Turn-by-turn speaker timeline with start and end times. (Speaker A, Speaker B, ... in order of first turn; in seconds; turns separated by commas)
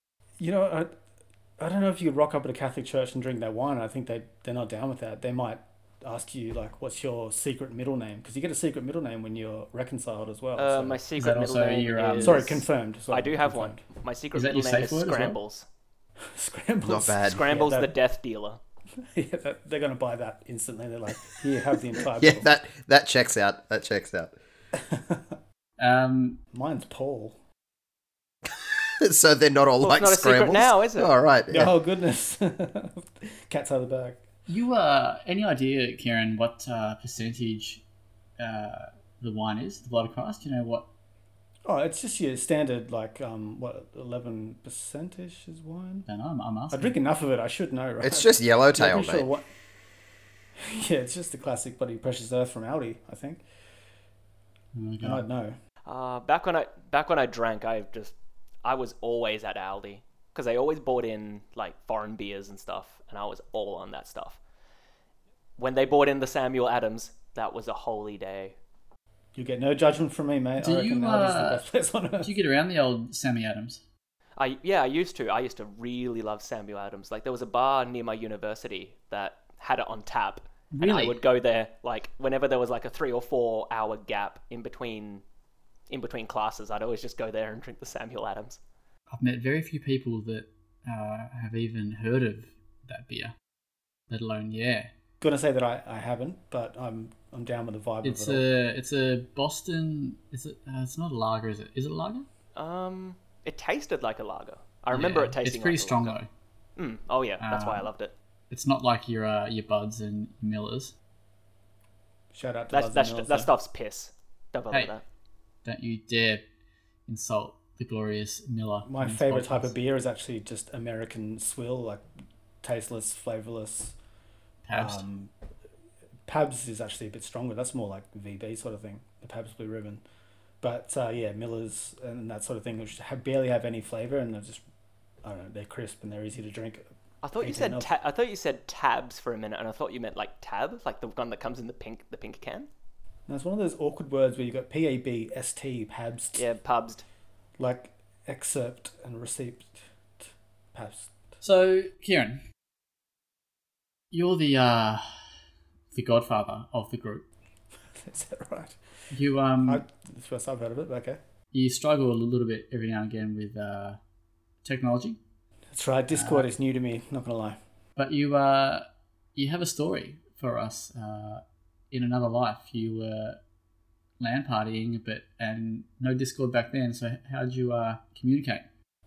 Speaker A: 0.4-0.9, Speaker A: 1.6-11.0, Speaker B: 10.6-12.5, Speaker C: 11.2-12.6, Speaker A: 12.2-13.8, Speaker B: 13.1-15.6, Speaker C: 14.3-15.4, Speaker A: 16.2-17.9, Speaker D: 16.9-17.4, Speaker B: 17.2-18.6, Speaker A: 19.0-22.4, Speaker D: 22.2-24.3, Speaker A: 24.7-25.3, Speaker C: 25.8-26.4, Speaker A: 26.5-27.4, Speaker D: 28.4-31.7, Speaker B: 29.8-31.1, Speaker A: 31.5-34.2, Speaker C: 34.5-37.8, Speaker C: 38.4-40.9, Speaker A: 41.6-46.0, Speaker C: 46.1-46.9, Speaker A: 46.7-49.5, Speaker D: 48.0-49.3, Speaker A: 50.6-53.4, Speaker C: 54.7-55.2, Speaker A: 55.0-55.6, Speaker B: 55.9-58.1, Speaker B: 58.6-64.4, Speaker B: 65.6-68.5, Speaker A: 69.3-72.3, Speaker C: 70.6-71.6, Speaker C: 72.2-73.8, Speaker B: 74.4-85.2, Speaker C: 80.7-81.2, Speaker B: 85.9-88.6, Speaker C: 89.1-93.3, Speaker C: 94.1-94.9, Speaker A: 95.2-98.5, Speaker C: 98.0-102.3, Speaker B: 102.5-106.2, Speaker C: 104.9-106.3, Speaker B: 106.8-108.1, Speaker C: 107.4-107.9, Speaker C: 108.5-110.9, Speaker A: 112.3-113.5, Speaker B: 112.7-115.0, Speaker C: 115.6-116.4, Speaker C: 117.1-119.7, Speaker A: 118.8-122.0, Speaker A: 122.6-124.0, Speaker C: 124.6-125.0, Speaker A: 124.7-125.3, Speaker A: 126.3-130.0, Speaker A: 130.6-134.6, Speaker A: 135.2-137.9, Speaker B: 137.2-142.7, Speaker A: 143.3-146.4, Speaker B: 146.3-147.0, Speaker A: 147.6-151.1, Speaker C: 151.4-152.4, Speaker C: 154.1-155.3, Speaker C: 155.9-157.2, Speaker A: 157.9-158.8, Speaker C: 159.1-159.8, Speaker A: 159.6-161.2, Speaker C: 161.5-164.0, Speaker C: 164.6-165.2, Speaker A: 165.7-167.6, Speaker C: 166.1-166.5, Speaker C: 167.9-173.4, Speaker C: 174.2-178.6